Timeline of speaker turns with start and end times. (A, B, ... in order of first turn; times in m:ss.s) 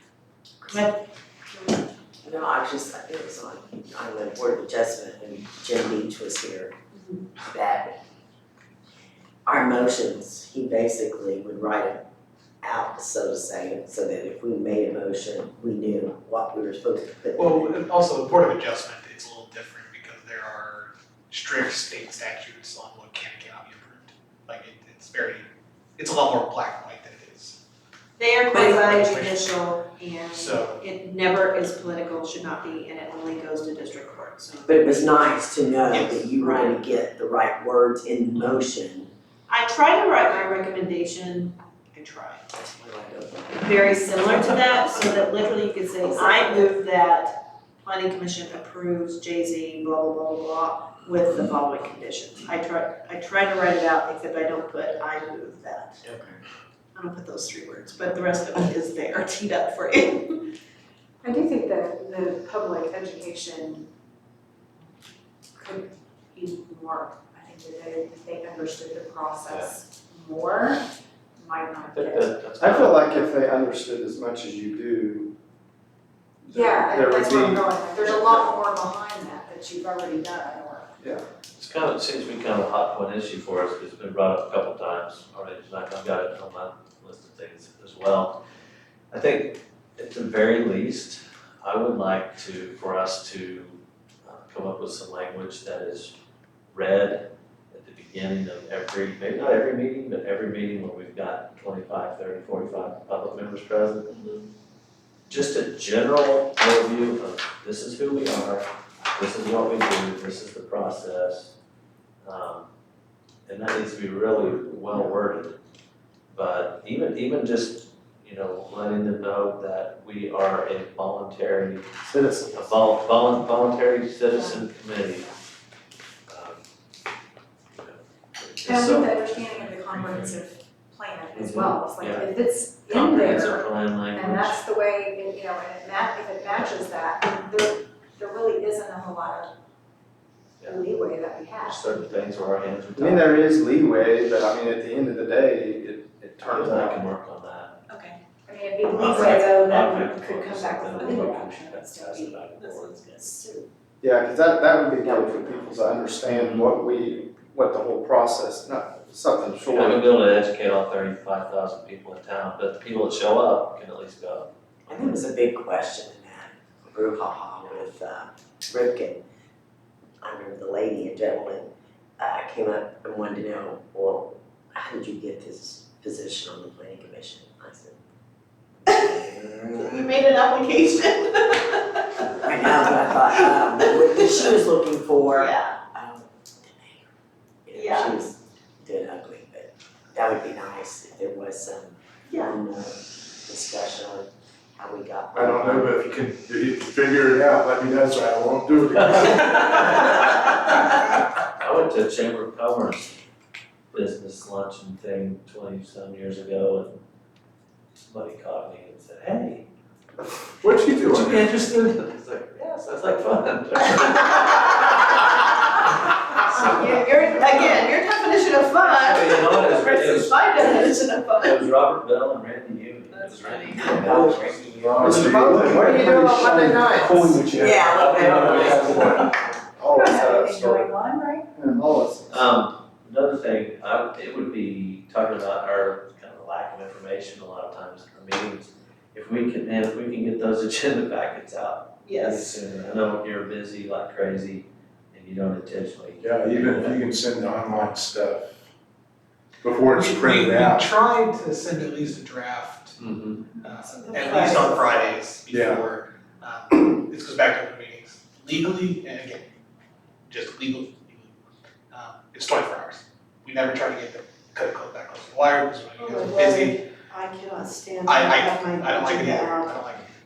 0:00.6-0:01.0 A
0:02.2-0:06.7 B
0:06.9-0:07.2 A
0:07.4-0:08.0 B
0:09.5-0:12.0 B
0:12.6-0:17.7 B
0:17.4-0:25.4 C
0:26.0-0:27.6 C
0:28.2-0:35.3 A
0:28.5-0:28.9 B
0:28.6-0:29.5 C
0:30.3-0:30.8 C
0:34.7-0:39.1 B
0:35.9-0:36.2 C
0:36.4-0:36.8 A
0:39.5-0:42.5 A
0:42.5-0:43.7 B
0:43.6-0:56.0 A
0:46.1-0:46.7 B
0:56.0-0:56.4 B
0:57.0-1:00.5 A
1:01.2-1:03.9 D
1:05.6-1:10.8 D
1:11.4-1:12.3 D
1:11.9-1:13.0 E
1:12.6-1:15.3 F
1:16.4-1:18.5 F
1:16.5-1:21.0 D
1:21.6-1:28.4 E
1:29.1-1:36.1 E
1:36.7-1:44.1 E
1:44.1-1:44.4 A
1:45.3-1:51.5 E
1:52.2-1:52.7 E
1:53.5-1:55.6 E
1:56.3-2:01.9 E
2:02.1-2:02.7 F
2:02.5-2:05.3 E
2:04.3-2:05.3 D
2:06.3-2:06.6 E
2:07.7-2:10.4 E
2:08.6-2:19.5 D
2:11.3-2:14.7 E
2:20.6-2:22.3 D
2:21.6-2:23.4 E
2:23.0-2:27.1 F
2:26.4-2:27.8 E
2:28.0-2:32.4 D
2:28.9-2:33.4 E
2:32.6-2:33.7 A
2:34.0-2:40.0 F
2:35.1-2:35.6 B
2:36.3-2:36.6 E
2:39.7-2:45.1 E
2:44.9-2:49.2 B
2:50.2-2:58.0 B
2:58.9-2:59.9 B
2:58.9-3:03.1 A
3:02.4-3:07.1 B
3:05.3-3:05.8 A
3:07.7-3:16.1 B
3:07.7-3:08.3 A
3:12.3-3:12.6 A
3:15.3-3:20.7 G
3:19.2-3:21.0 E
3:21.6-3:23.2 E
3:23.9-3:27.0 E
3:28.0-3:29.6 E
3:30.6-3:31.5 G
3:30.9-3:35.8 E
3:36.4-3:41.6 A
3:37.4-3:37.8 E
3:38.8-3:44.6 E
3:43.1-3:44.1 A
3:43.8-3:49.3 G
3:44.0-3:45.3 B
3:45.0-3:47.5 F
3:47.5-3:49.0 B
3:48.2-3:49.1 E
3:48.9-3:51.0 F
3:49.9-3:51.6 D
3:51.5-3:52.6 F
3:52.3-4:07.0 E
4:02.0-4:02.6 A
4:06.2-4:08.6 G
4:09.6-4:10.9 G
4:09.9-4:13.1 C
4:13.0-4:13.4 E
4:13.6-4:19.4 C
4:14.1-4:15.1 A
4:15.5-4:15.8 G
4:20.3-4:21.3 C
4:21.9-4:26.8 C
4:26.0-4:29.8 A
4:28.0-4:30.1 C